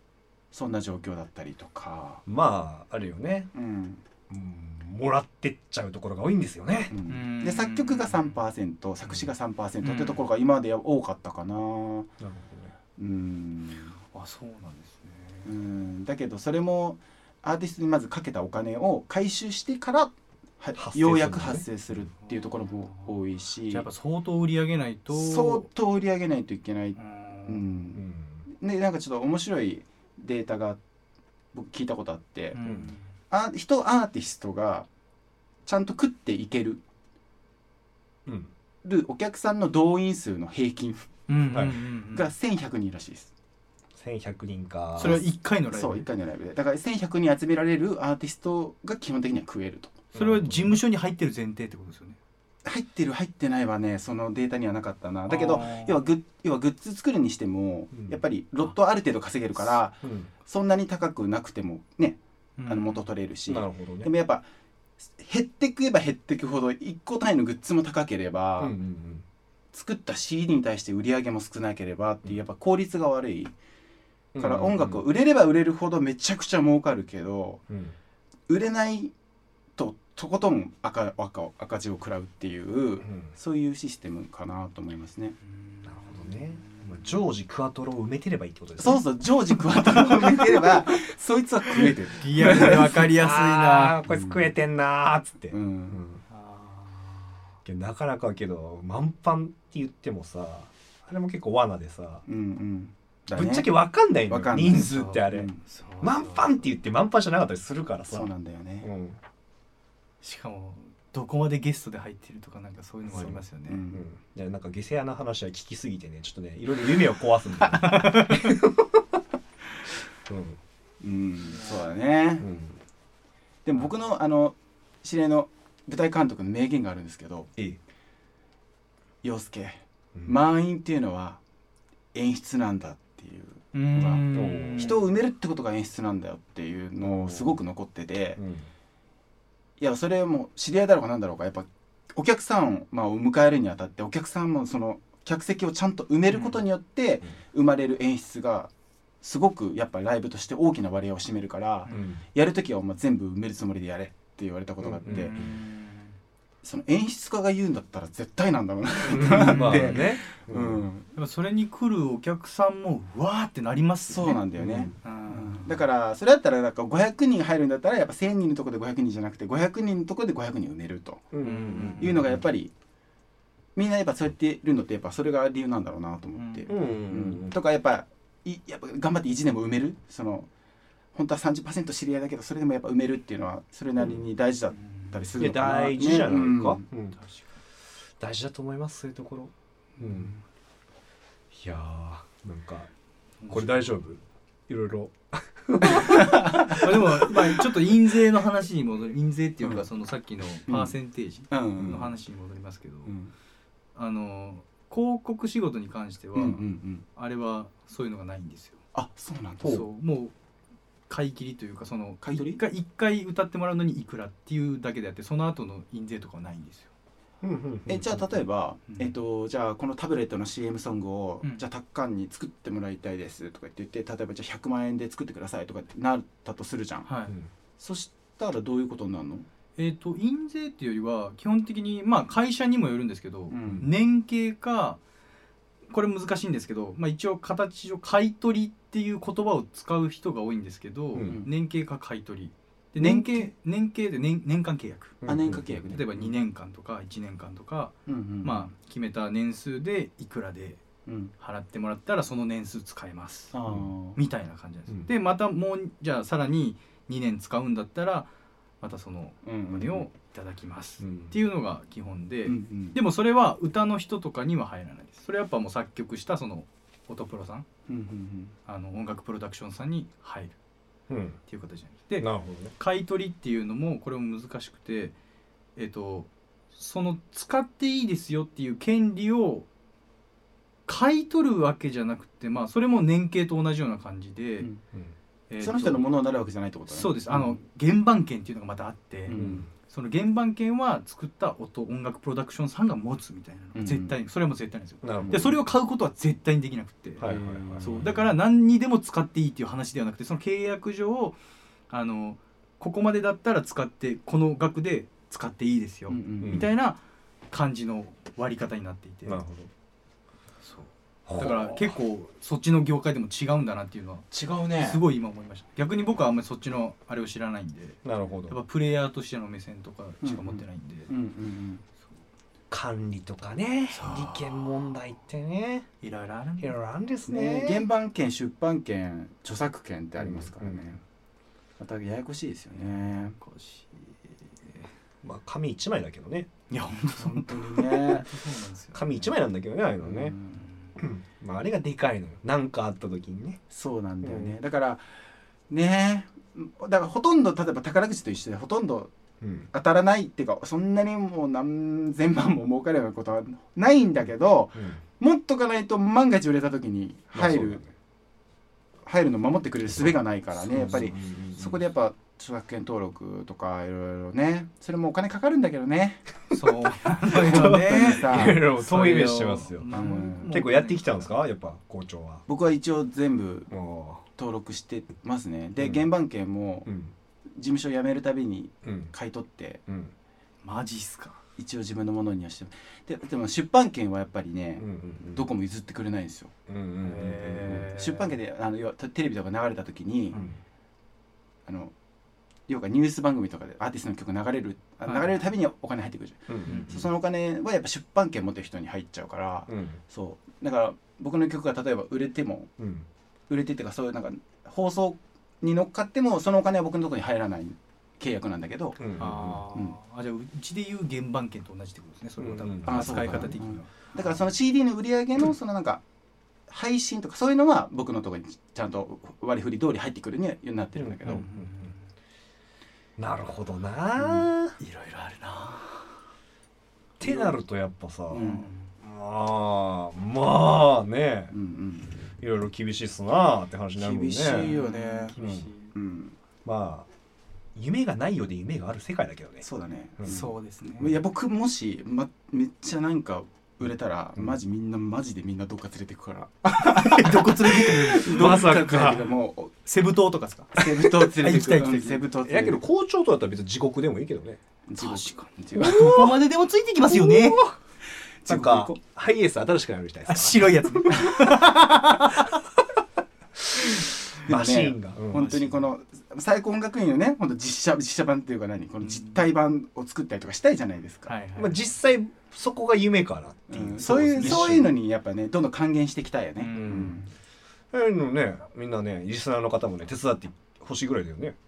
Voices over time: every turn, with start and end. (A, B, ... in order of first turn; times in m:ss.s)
0:00.5-0:02.2 A
0:02.2-0:03.5 B
0:03.5-0:04.0 A
0:04.3-0:06.9 B
0:06.9-0:12.1 A
0:07.1-0:08.4 C
0:09.8-0:10.2 C
0:12.2-0:12.7 B
0:13.0-0:14.0 A
0:14.1-0:15.5 C
0:15.4-0:23.8 A
0:20.8-0:21.6 B
0:22.2-0:23.1 C
0:23.7-0:25.7 C
0:25.1-0:30.8 A
0:27.0-0:27.6 C
0:28.0-0:28.4 B
0:31.5-0:32.6 A
0:32.5-0:33.1 C
0:32.6-0:32.9 B
0:33.3-0:34.9 A
0:35.6-0:36.8 A
0:38.2-0:38.5 B
0:38.8-0:41.1 A
0:41.3-0:42.3 C
0:41.5-0:41.8 B
0:42.1-0:43.3 A
0:44.0-0:45.2 B
0:45.0-0:46.1 C
0:45.0-0:50.0 A
0:50.1-0:50.8 B
0:50.1-0:52.2 C
0:52.6-1:04.4 A
0:55.3-0:56.0 C
0:57.9-0:58.2 B
1:00.0-1:00.3 B
1:02.6-1:03.0 C
1:03.5-1:04.1 B
1:05.1-1:08.7 A
1:08.6-1:09.2 B
1:09.7-1:13.5 A
1:14.3-1:15.0 B
1:14.4-1:17.6 A
1:17.7-1:17.9 B
1:18.5-1:19.1 A
1:19.8-1:25.4 A
1:23.0-1:23.3 B
1:25.4-1:27.2 C
1:25.8-1:29.0 B
1:28.8-1:33.0 A
1:32.2-1:34.0 C
1:32.4-1:36.2 B
1:34.0-1:34.5 A
1:35.5-1:36.0 A
1:36.3-1:37.4 C
1:37.6-1:42.2 B
1:42.2-1:43.7 A
1:43.3-1:45.5 B
1:44.3-1:45.6 A
1:44.8-1:46.6 C
1:46.0-1:48.3 B
1:48.1-1:48.9 A
1:48.8-1:49.2 B
1:50.2-1:53.8 C
1:53.1-1:59.2 B
1:53.7-1:54.1 A
1:57.6-1:58.6 C
2:00.3-2:00.6 B
2:01.0-2:02.4 A
2:01.5-2:01.9 C
2:02.4-2:02.8 B
2:03.6-2:07.5 A
2:09.2-2:11.4 A
2:12.1-2:18.4 A
2:13.7-2:15.0 C
2:14.3-2:15.0 B
2:17.0-2:17.6 B
2:18.4-2:18.7 B
2:19.8-2:28.7 A
2:26.3-2:26.6 C
2:29.2-2:35.3 A
2:31.9-2:32.2 B
2:34.8-2:35.6 B
2:35.0-2:36.2 C
2:36.6-2:41.1 A
2:39.1-2:40.8 B
2:39.2-2:40.2 C
2:41.1-2:44.4 C
2:44.1-2:51.2 A
2:44.5-2:44.9 B
2:45.0-2:45.8 C
2:51.3-2:52.4 B
2:51.4-2:52.3 C
2:52.0-2:52.7 A
2:53.8-3:00.5 A
2:56.4-2:56.7 C
2:56.7-2:57.6 B
3:01.1-3:06.8 A
3:04.7-3:05.2 C
3:05.4-3:07.2 B
3:07.2-3:07.5 C
3:08.2-3:10.3 B
3:10.0-3:10.4 C
3:11.5-3:12.9 B
3:13.4-3:13.9 C
3:13.5-3:17.3 B
3:16.0-3:16.8 A
3:16.0-3:23.1 C
3:20.7-3:20.9 A
3:21.5-3:22.1 A
3:23.0-3:23.3 A
3:23.9-3:26.6 C
3:26.4-3:27.0 A
3:27.1-3:28.8 C
3:28.9-3:29.8 A
3:29.6-3:30.3 C
3:31.1-3:36.9 C
3:32.2-3:32.6 A
3:37.4-3:38.3 B
3:37.9-3:47.1 A
3:47.0-3:47.4 C
3:47.8-3:49.4 A
3:49.8-3:55.0 C
3:53.5-3:53.9 A
3:55.9-4:05.2 C
4:01.1-4:01.4 B
4:01.2-4:01.5 A
4:03.0-4:03.5 A
4:05.2-4:05.8 B
4:05.2-4:06.3 A
4:05.9-4:10.8 C
4:08.1-4:08.7 A
4:11.0-4:11.3 A
4:11.4-4:13.5 C
4:13.5-4:14.2 A
4:14.1-4:18.3 C
4:18.8-4:27.7 C
4:19.4-4:20.1 A
4:21.0-4:21.3 B
4:22.4-4:23.0 A
4:27.9-4:28.5 A
4:28.7-4:30.5 C
4:31.1-4:31.4 B
4:31.5-4:35.1 C
4:32.2-4:32.7 B
4:35.8-4:39.7 C
4:40.8-4:44.7 C
4:45.5-4:46.1 C
4:45.6-4:47.5 A
4:46.9-5:01.4 C
4:49.3-4:49.6 A
4:49.3-4:49.7 B
4:53.7-4:54.1 A
4:55.0-4:55.6 B
4:55.2-4:55.5 A
4:57.2-4:58.2 B
4:57.2-4:58.2 A
5:01.9-5:07.0 C
5:06.1-5:06.6 A
5:06.4-5:06.7 B
5:07.5-5:09.4 C
5:09.3-5:09.7 B
5:10.6-5:21.1 C
5:11.3-5:11.6 B
5:11.4-5:11.8 A
5:14.3-5:15.0 A
5:18.0-5:18.6 B
5:20.2-5:21.8 A
5:22.7-5:25.9 B
5:23.9-5:24.6 C
5:26.0-5:26.7 C
5:26.6-5:27.8 B
5:27.3-5:31.0 A
5:30.2-5:30.8 B
5:31.8-5:33.4 A
5:32.9-5:34.9 C
5:35.2-5:36.5 B
5:36.7-5:39.3 C
5:37.2-5:38.3 A
5:38.9-5:40.4 B
5:40.0-5:40.6 A
5:40.6-5:40.9 C
5:41.0-5:43.6 B
5:43.7-5:45.0 A
5:44.2-5:44.6 B
5:45.7-5:49.1 A
5:49.4-5:49.7 B
5:49.7-5:57.8 A
5:54.8-5:55.0 B
5:57.3-5:57.9 B
5:59.0-6:06.2 A
5:59.8-6:01.8 B
6:06.5-6:11.3 C
6:07.3-6:12.4 B
6:07.4-6:08.6 A
6:09.9-6:10.5 A
6:12.5-6:13.7 A
6:13.7-6:14.2 B
6:14.4-6:16.9 A
6:15.8-6:16.0 B
6:16.8-6:17.1 B
6:17.5-6:19.8 A
6:18.8-6:19.1 B
6:19.9-6:20.1 B
6:20.6-6:21.4 C
6:21.6-6:26.5 A
6:24.8-6:25.5 B
6:26.7-6:27.9 B
6:27.0-6:28.4 C
6:27.7-6:30.4 A
6:31.7-6:31.9 A
6:32.7-6:42.7 A
6:35.0-6:35.4 C
6:36.5-6:37.1 B
6:36.7-6:37.0 C
6:39.7-6:40.0 B
6:42.8-6:43.1 B
6:43.5-6:49.0 A
6:49.0-6:49.6 B
6:49.2-6:54.1 C
6:52.4-6:53.6 B
6:52.8-6:56.0 A
6:56.7-7:01.4 A
7:01.0-7:01.9 B
7:01.2-7:02.0 C
7:03.2-7:04.8 B
7:04.8-7:06.2 C
7:07.2-7:08.5 B
7:07.2-7:07.5 A
7:08.3-7:08.7 A
7:08.3-7:08.9 C
7:09.0-7:11.5 B
7:11.5-7:12.2 A
7:12.3-7:14.7 B
7:14.0-7:15.3 A
7:14.5-7:15.9 C
7:15.4-7:15.7 B
7:15.9-7:16.4 A
7:16.6-7:17.1 B
7:17.7-7:19.6 B
7:19.6-7:29.7 A
7:20.2-7:21.1 C
7:26.8-7:29.2 C
7:28.2-7:29.3 B
7:29.8-7:32.3 C
7:30.7-7:32.8 A
7:32.4-7:34.6 B
7:34.9-7:36.4 A
7:35.0-7:37.6 C
7:35.8-7:36.4 B
7:37.0-7:37.7 B
7:38.4-7:39.0 A
7:38.4-7:41.3 B
7:40.3-7:42.5 C
7:44.4-7:51.3 A
7:44.4-7:45.5 B
7:45.3-7:45.8 C
7:49.0-7:49.4 C
7:51.3-7:51.9 C
7:51.6-7:54.9 B
7:53.7-7:57.2 A
7:56.6-7:57.3 C
7:56.7-7:57.2 B
7:57.9-8:01.6 B